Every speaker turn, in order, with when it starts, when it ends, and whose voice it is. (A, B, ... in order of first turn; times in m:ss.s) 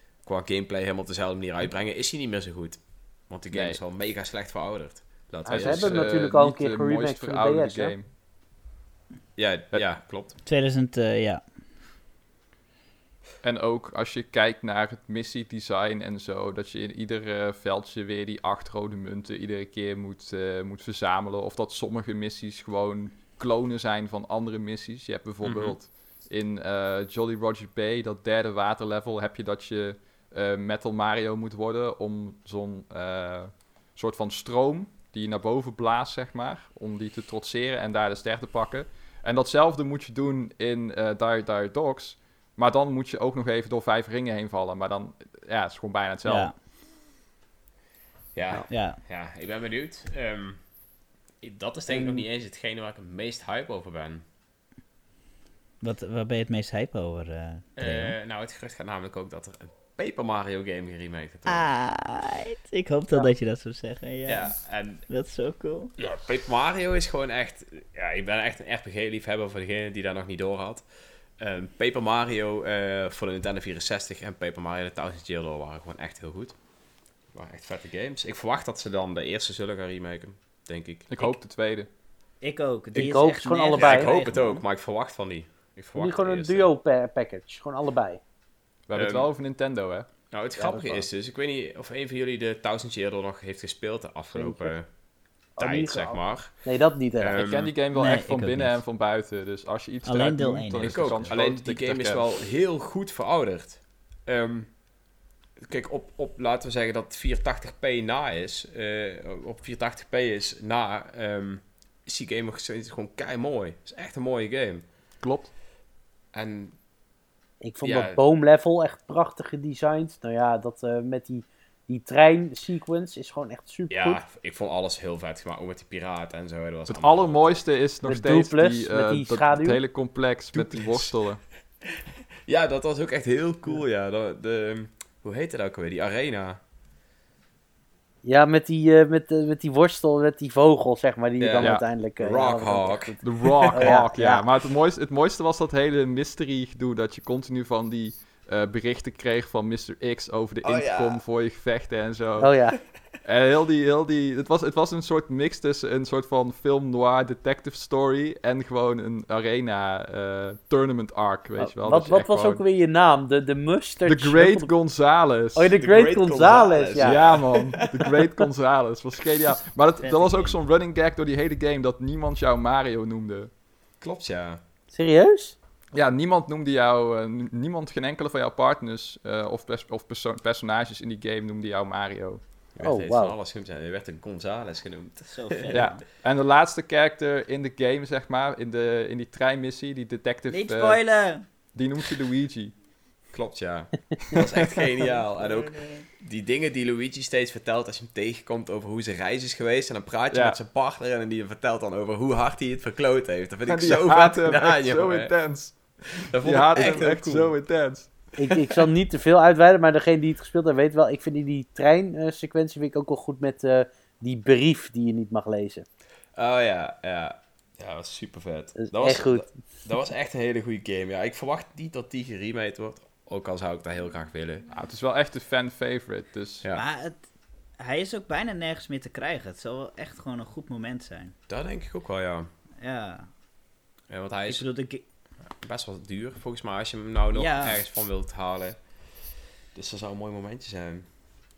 0:00.2-0:06.1 A
0:03.5-0:03.8 B
0:05.4-0:07.9 C
0:05.5-0:08.1 B
0:09.4-0:10.4 A
0:10.4-0:11.4 D
0:13.4-0:46.5 B
0:25.4-0:25.8 A
0:46.3-0:46.5 D
0:48.3-0:50.8 A
0:48.7-0:49.0 D
0:51.4-0:54.2 A
0:51.9-0:52.2 C
0:55.8-0:58.2 D
0:57.8-1:01.7 A
1:01.5-1:05.9 D
1:04.3-1:05.1 A
1:06.0-1:16.6 A
1:17.3-1:21.1 A
1:21.1-1:21.9 B
1:22.4-1:24.6 D
1:22.9-1:24.1 C
1:23.8-1:26.7 A
1:26.0-1:28.2 C
1:28.9-1:30.1 B
1:28.9-1:29.3 A
1:30.3-1:34.9 A
1:30.6-1:31.1 C
1:34.3-1:34.7 C
1:35.6-1:36.6 A
1:35.6-1:37.4 C
1:37.2-1:37.7 A
1:37.4-1:42.2 B
1:37.9-1:38.8 D
1:40.0-1:41.4 D
1:40.8-1:44.8 A
1:45.6-1:54.8 A
1:55.2-1:55.5 B
1:56.3-1:56.8 A
1:57.6-2:04.2 C
1:57.8-1:58.2 A
2:03.9-2:07.6 A
2:06.9-2:11.4 B
2:08.1-2:09.8 C
2:10.5-2:11.2 A
2:12.5-2:16.6 A
2:18.2-2:23.2 C
2:21.4-2:24.0 A
2:23.2-2:32.7 B
2:23.7-2:24.4 C
2:30.6-2:31.2 A
2:32.4-2:32.8 C
2:33.2-2:42.6 B
2:41.6-2:44.7 C
2:44.0-2:45.8 B
2:45.6-2:47.3 C
2:45.8-2:48.1 A
2:47.0-2:53.5 B
2:50.0-2:50.6 D
2:54.0-2:54.6 A
2:54.9-2:55.6 C
2:55.9-3:02.4 B
3:02.8-3:05.9 A
3:02.8-3:03.4 C
3:05.3-3:06.0 D
3:05.7-3:12.7 B
3:10.5-3:11.5 D
3:13.3-3:27.6 A
3:15.4-3:16.1 D
3:20.3-3:20.6 B
3:23.7-3:28.2 B
3:28.4-3:35.8 C
3:36.4-3:44.7 A
3:38.8-3:39.5 C
3:44.7-3:46.6 B
3:46.8-3:47.2 D
3:47.8-3:51.4 D
3:51.5-3:52.5 A
3:52.8-3:53.3 D
3:54.1-3:54.7 A
3:54.5-3:55.0 D
3:55.6-4:01.1 A
3:57.3-3:57.8 D